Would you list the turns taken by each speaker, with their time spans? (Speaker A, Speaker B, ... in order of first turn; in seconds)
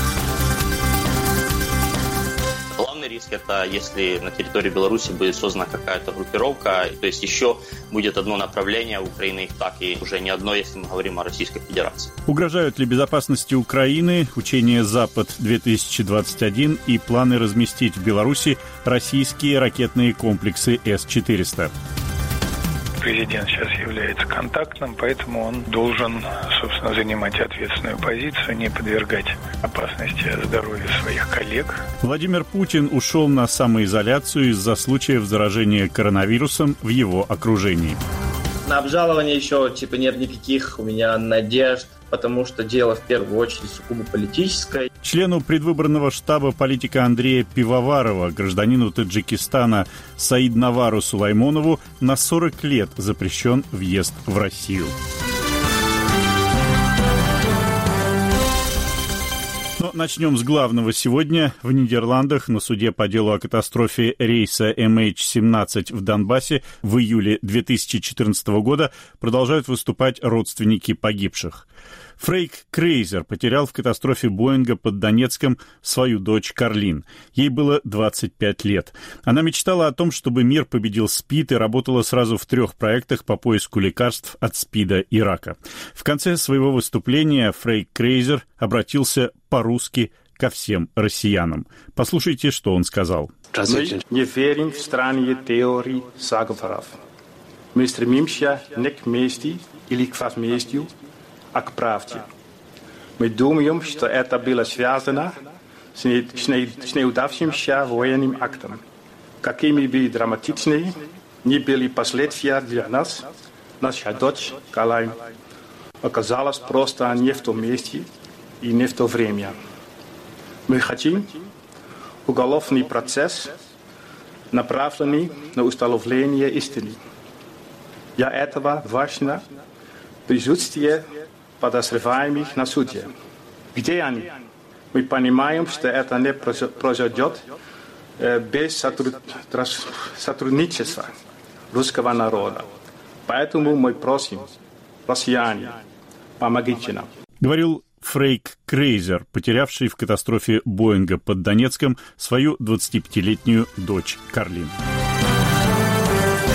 Speaker A: 2.8-12.1
Speaker B: 12.2-21.7, 32.0-38.0, 45.0-54.9, 59.8-71.6, 72.2-93.3, 147.4-154.7
Speaker C: 23.0-31.8
Speaker D: 38.6-44.9
Speaker E: 93.5-97.0, 97.7-100.9, 101.5-102.3, 103.2-108.8, 109.4-113.3, 113.8-115.2, 116.0-118.1, 118.6-119.6, 120.7-121.4, 122.2-123.5, 124.5-127.0, 128.2-129.5, 130.3-133.1, 133.7-134.3, 134.9-137.5, 138.2-141.2, 141.7-142.7, 143.2-144.5, 145.1-145.8, 146.4-147.1